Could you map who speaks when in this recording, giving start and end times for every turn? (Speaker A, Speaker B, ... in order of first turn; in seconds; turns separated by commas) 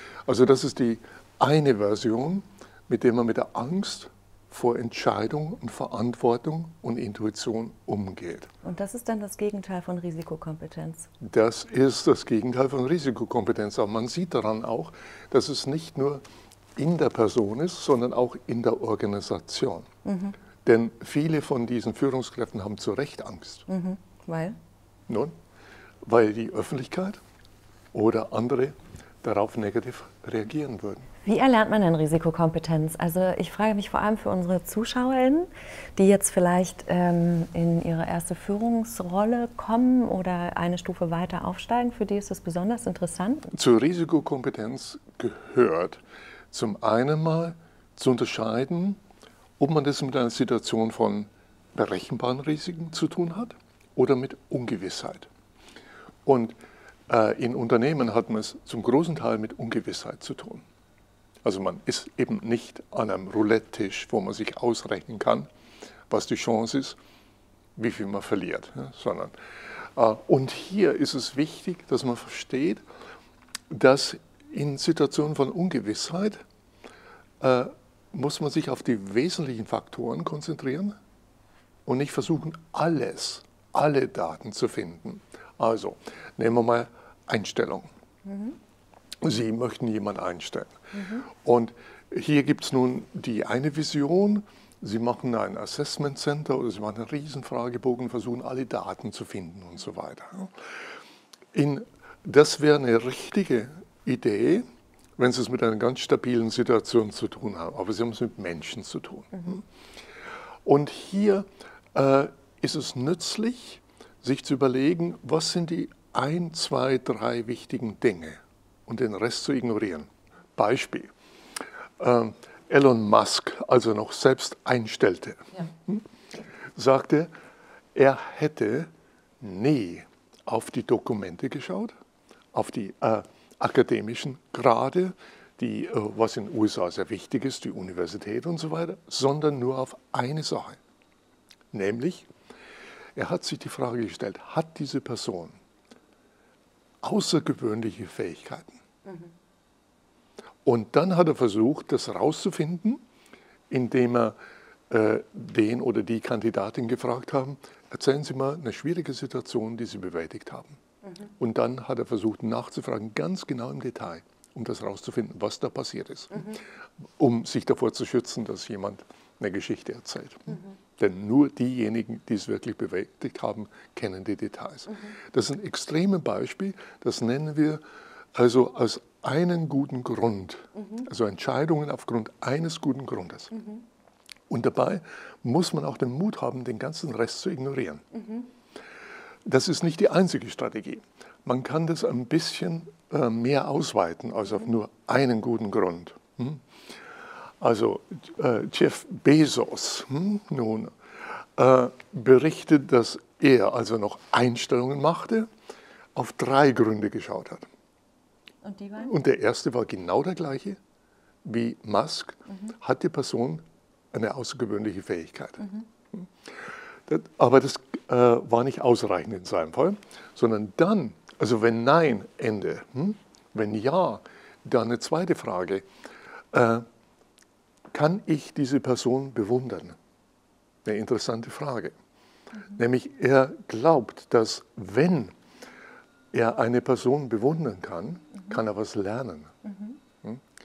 Speaker A: 0.3-8.5, Speaker B: 8.6-11.1, Speaker A: 11.2-16.2, Speaker A: 16.8-19.9, Speaker B: 20.1-20.4, Speaker A: 20.6-23.7, Speaker B: 23.7-24.6, Speaker A: 25.1-25.3, Speaker A: 26.1-27.2, Speaker A: 27.9-31.1, Speaker B: 31.2-43.5, Speaker A: 43.5-49.0, Speaker A: 49.6-55.3, Speaker A: 56.2-56.6, Speaker A: 57.1-60.6, Speaker A: 61.4-65.5, Speaker A: 66.1-67.0, Speaker A: 67.8-69.3, Speaker A: 70.0-72.8, Speaker A: 73.7-76.4, Speaker A: 77.4-81.0, Speaker A: 81.8-87.9, Speaker B: 88.3-88.5, Speaker A: 89.2-90.8, Speaker B: 90.9-91.2, Speaker A: 91.3-100.5, Speaker A: 101.5-104.7, Speaker A: 105.2-109.6, Speaker A: 110.7-121.1, Speaker A: 122.0-126.0, Speaker A: 126.8-127.3, Speaker A: 127.9-131.9, Speaker A: 132.5-140.8, Speaker A: 141.7-142.3, Speaker A: 143.2-145.6, Speaker A: 147.0-148.8, Speaker A: 150.7-153.0, Speaker A: 153.7-154.4, Speaker A: 154.9-160.8, Speaker A: 161.4-166.6, Speaker A: 167.2-177.8, Speaker A: 178.3-183.6, Speaker A: 184.5-188.1, Speaker A: 189.4-196.6, Speaker A: 197.6-205.5, Speaker A: 206.2-207.7, Speaker B: 208.6-209.1, Speaker A: 209.0-210.8, Speaker A: 211.4-215.8, Speaker A: 217.1-225.8, Speaker A: 226.5-226.8, Speaker A: 227.9-230.0, Speaker A: 230.8-231.9, Speaker A: 232.7-235.3, Speaker A: 236.3-239.5